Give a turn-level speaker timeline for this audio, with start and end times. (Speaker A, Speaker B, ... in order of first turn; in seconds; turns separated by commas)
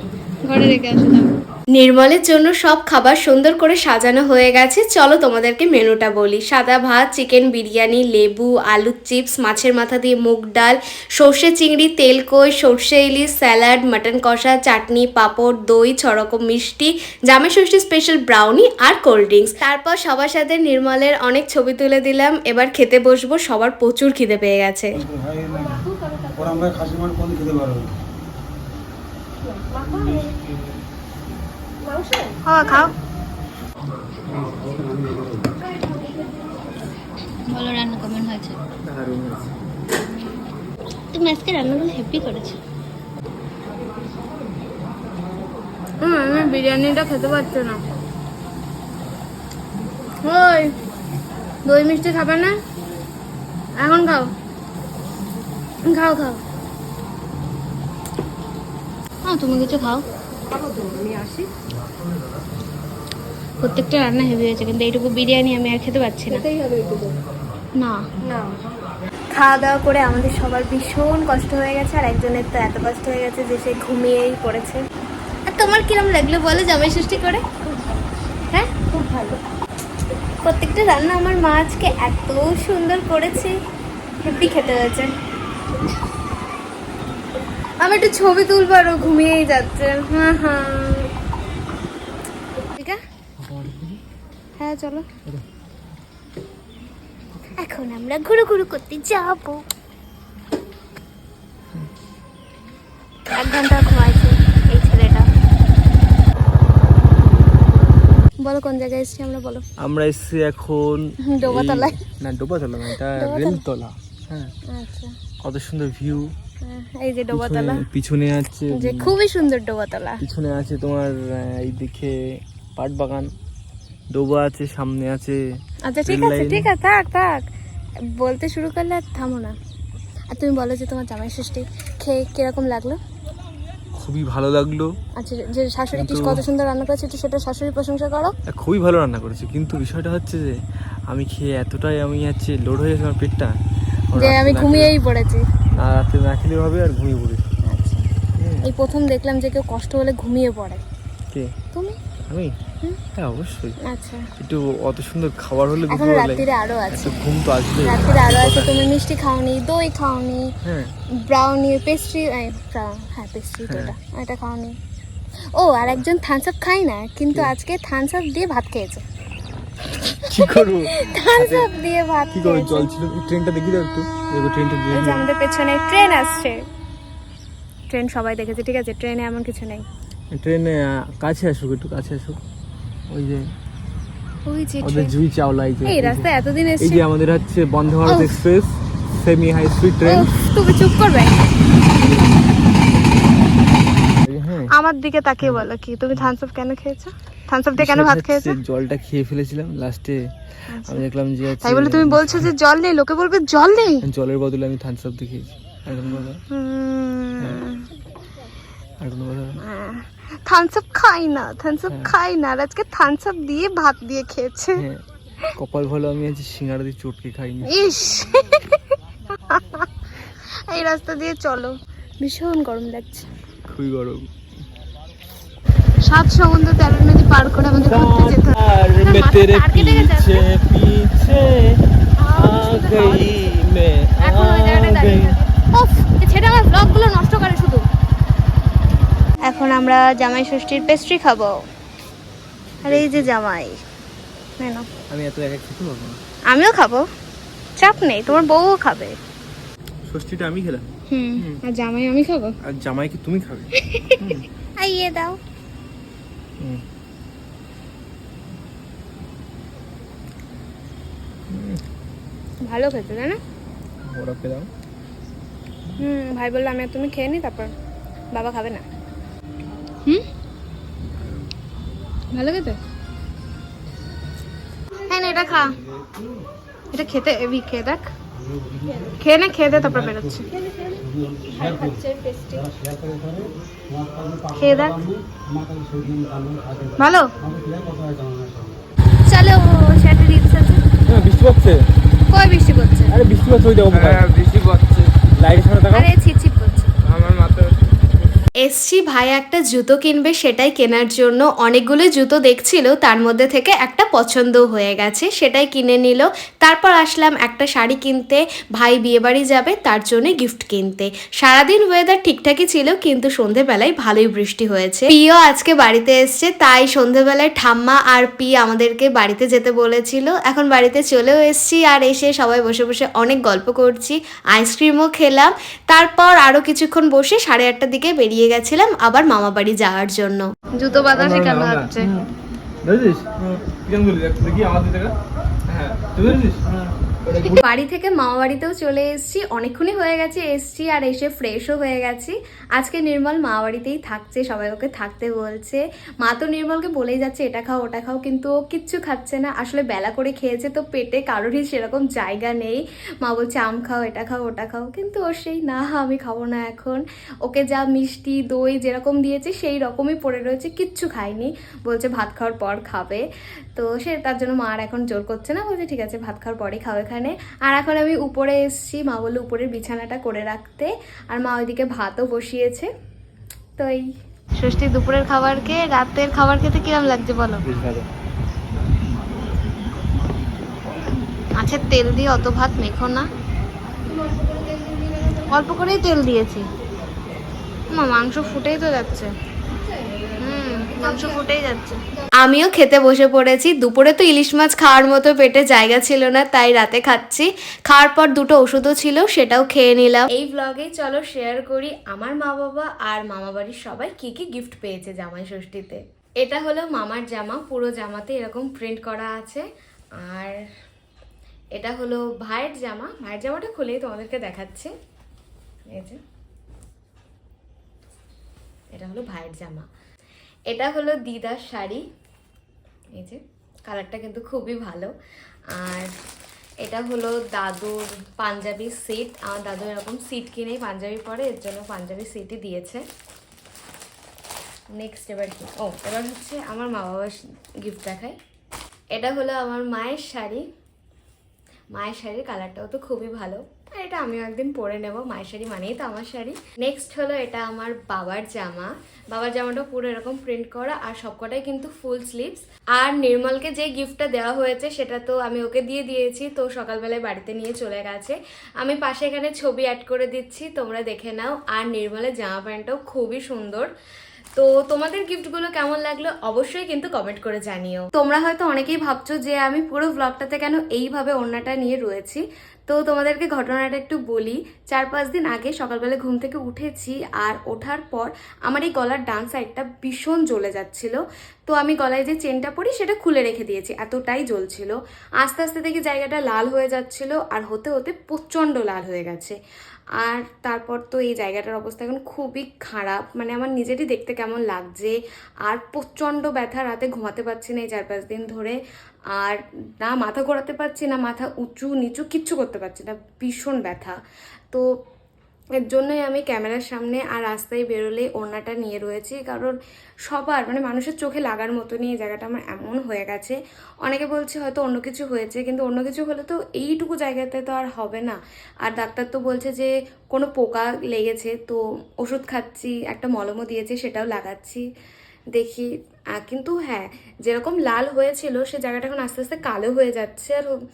Speaker A: 0.4-25.0, Speaker B: 25.0-25.8, Speaker C: 25.4-26.8, Speaker B: 26.6-27.9, Speaker C: 29.4-30.3, Speaker C: 31.8-32.9, Speaker A: 32.4-32.9, Speaker B: 34.3-35.4, Speaker C: 35.7-36.5, Speaker A: 37.5-38.6, Speaker D: 38.8-39.5, Speaker A: 41.1-42.6, Speaker A: 46.0-47.8, Speaker A: 50.2-50.7, Speaker A: 51.6-52.5, Speaker A: 53.8-54.3, Speaker A: 55.8-56.4, Speaker A: 59.2-60.0, Speaker C: 60.5-61.5, Speaker A: 63.6-66.4, Speaker C: 66.3-67.2, Speaker A: 67.8-68.0, Speaker C: 68.2-68.6, Speaker A: 69.3-74.8, Speaker A: 75.5-77.4, Speaker C: 78.9-79.4, Speaker A: 80.4-83.6, Speaker A: 84.2-85.1, Speaker A: 87.8-91.1, Speaker D: 93.4-94.0, Speaker A: 94.6-95.1, Speaker A: 97.6-99.6, Speaker A: 103.3-105.3, Speaker A: 108.4-109.6, Speaker D: 109.8-114.5, Speaker A: 111.2-112.0, Speaker A: 113.2-113.6, Speaker A: 114.7-115.1, Speaker D: 115.4-116.3, Speaker A: 116.6-117.8, Speaker D: 117.3-119.1, Speaker A: 118.7-120.2, Speaker D: 120.2-123.3, Speaker D: 124.1-125.4, Speaker A: 125.8-127.5, Speaker D: 126.1-126.7, Speaker A: 128.2-129.6, Speaker A: 130.3-133.0, Speaker D: 133.9-134.9, Speaker A: 135.2-138.3, Speaker D: 135.9-136.4, Speaker D: 138.5-140.6, Speaker D: 141.1-143.5, Speaker D: 144.1-144.9, Speaker A: 144.2-145.4, Speaker D: 145.7-147.4, Speaker A: 147.7-148.1, Speaker D: 148.4-148.6, Speaker A: 148.6-150.8, Speaker D: 152.3-152.5, Speaker D: 153.1-153.8, Speaker A: 153.8-154.3, Speaker D: 154.4-158.7, Speaker A: 155.9-157.2, Speaker A: 157.8-160.5, Speaker D: 160.6-160.9, Speaker A: 161.2-164.8, Speaker A: 165.5-169.0, Speaker D: 170.1-171.7, Speaker A: 170.2-172.9, Speaker D: 172.3-175.3, Speaker A: 174.9-176.6, Speaker A: 177.9-179.8, Speaker D: 180.3-182.4, Speaker D: 183.1-183.4, Speaker A: 184.4-185.1, Speaker D: 184.8-186.3, Speaker A: 185.8-187.0, Speaker D: 186.8-190.3, Speaker A: 190.0-191.5, Speaker D: 191.9-192.4, Speaker D: 194.2-194.7, Speaker A: 194.7-198.6, Speaker D: 197.8-202.5, Speaker A: 200.7-201.0, Speaker A: 201.6-204.0, Speaker D: 204.0-206.4, Speaker A: 206.1-207.8, Speaker D: 209.0-209.6, Speaker A: 209.6-214.8, Speaker D: 214.8-215.0, Speaker D: 215.6-217.8, Speaker A: 217.7-218.8, Speaker A: 219.4-219.8, Speaker A: 220.7-223.3, Speaker D: 223.7-224.3, Speaker A: 226.0-230.4, Speaker D: 227.7-231.8, Speaker A: 232.2-233.5, Speaker D: 232.3-235.4, Speaker A: 234.2-237.8, Speaker A: 239.4-241.6, Speaker D: 242.8-243.3, Speaker A: 242.8-243.8, Speaker A: 244.6-244.8, Speaker D: 245.1-246.2, Speaker A: 246.5-247.1, Speaker A: 247.8-249.2, Speaker D: 250.1-251.6, Speaker A: 251.1-252.5, Speaker D: 252.6-253.7, Speaker A: 253.7-254.3, Speaker D: 254.2-254.5, Speaker A: 254.8-255.4, Speaker D: 261.5-261.8, Speaker A: 262.6-263.4, Speaker D: 264.0-264.7, Speaker A: 266.0-267.7, Speaker A: 268.3-268.8, Speaker A: 272.3-272.8, Speaker A: 275.1-275.7, Speaker A: 276.9-278.1, Speaker C: 278.8-279.1, Speaker A: 279.2-280.5, Speaker C: 280.5-282.8, Speaker B: 282.8-288.8, Speaker A: 284.5-285.0, Speaker A: 287.0-287.3, Speaker A: 289.3-290.8, Speaker D: 291.1-291.8, Speaker A: 292.3-293.2, Speaker D: 293.1-296.1, Speaker E: 293.9-295.1, Speaker A: 295.9-296.9, Speaker E: 297.1-297.9, Speaker A: 298.6-332.1, Speaker D: 331.1-332.3, Speaker D: 332.8-335.1, Speaker D: 335.7-337.6, Speaker A: 337.4-372.9, Speaker A: 374.6-377.6, Speaker D: 377.6-378.1, Speaker A: 381.6-383.2, Speaker C: 384.0-385.6, Speaker A: 385.5-386.6, Speaker A: 387.9-389.3, Speaker C: 389.7-391.6, Speaker A: 390.4-409.6, Speaker A: 410.2-410.6, Speaker A: 411.8-414.9, Speaker A: 415.9-416.2, Speaker A: 418.9-419.9, Speaker A: 420.7-422.0, Speaker A: 423.1-425.1, Speaker A: 425.7-426.1, Speaker A: 426.8-433.0, Speaker A: 434.9-438.4, Speaker A: 439.1-440.7, Speaker A: 441.9-463.9, Speaker A: 464.6-489.6, Speaker A: 490.2-498.8, Speaker A: 499.4-504.1, Speaker A: 505.9-509.7, Speaker A: 510.3-524.8, Speaker A: 525.5-530.8